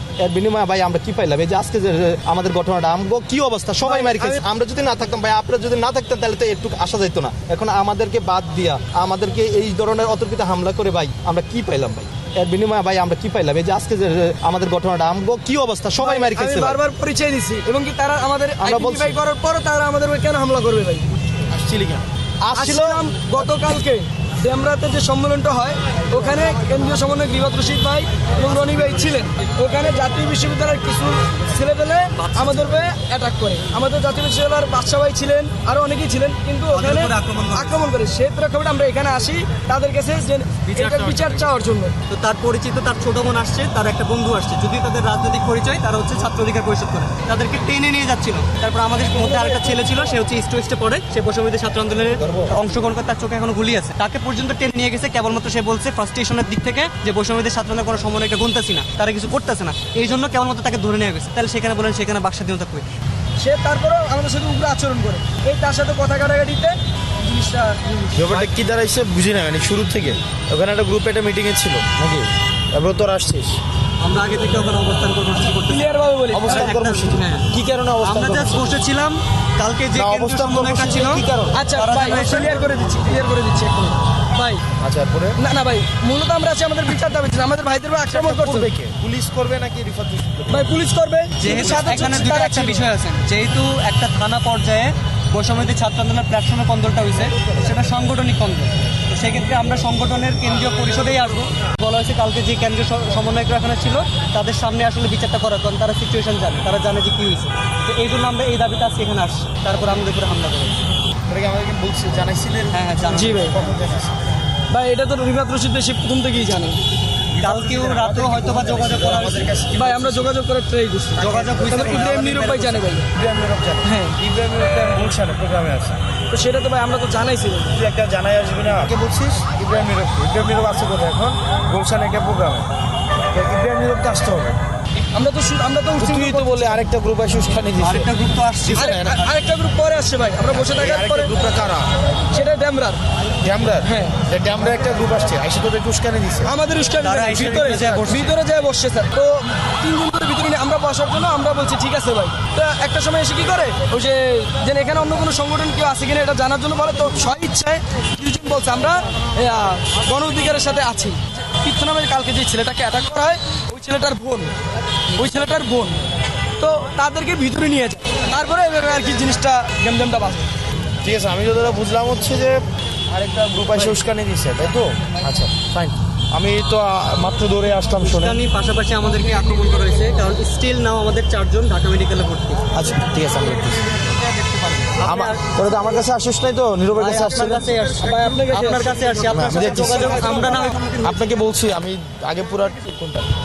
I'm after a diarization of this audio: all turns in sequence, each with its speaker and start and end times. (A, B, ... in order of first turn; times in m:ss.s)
0:00.2-0:16.8 A
0:03.8-0:04.4 B
0:16.0-0:21.1 B
0:18.6-0:19.1 A
0:21.5-0:22.0 C
0:22.4-0:23.0 A
0:22.5-0:42.0 B
0:32.1-0:32.9 D
0:36.7-0:37.8 D
0:40.7-0:41.5 C
0:42.1-1:02.9 D
0:52.2-0:52.5 C
1:03.4-1:08.5 B
1:08.2-1:13.6 C
1:14.0-1:15.9 D
1:15.7-1:16.7 B
1:16.3-1:18.8 C
1:16.4-1:17.5 D
1:18.0-1:22.6 D
1:19.9-1:21.6 C
1:21.5-1:24.6 B
1:24.8-1:25.4 C
1:25.4-1:28.7 B
1:28.1-1:30.8 C
1:30.5-1:32.9 B
1:31.4-1:50.8 D
1:31.4-1:32.2 C
1:51.3-1:54.2 C
1:52.7-1:53.6 D
1:53.1-1:53.6 B
1:54.7-1:56.8 B
1:57.3-2:00.3 C
1:57.4-1:59.8 D
1:59.8-2:03.1 B
2:01.2-2:03.0 D
2:03.1-2:06.0 C
2:03.8-2:04.2 B
2:06.3-2:07.8 B
2:07.8-2:12.7 C
2:13.3-2:14.6 C
2:15.1-2:16.8 B
2:16.0-2:18.1 C
2:17.8-2:19.1 D
2:18.6-2:19.2 C
2:18.7-2:21.3 B
2:20.5-2:21.9 C
2:22.3-2:23.0 B
2:23.4-2:26.5 C
2:23.8-2:24.2 B
2:26.4-2:44.5 B
2:27.0-2:28.3 D
2:45.2-2:46.0 B
2:46.6-2:50.5 B
2:51.0-2:58.4 C
2:58.0-3:02.7 D
3:02.7-3:03.9 C
3:03.5-3:05.6 D
3:05.0-3:07.9 C
3:07.0-3:11.4 D
3:07.4-3:10.8 A
3:08.0-3:09.0 B
3:09.3-3:13.3 C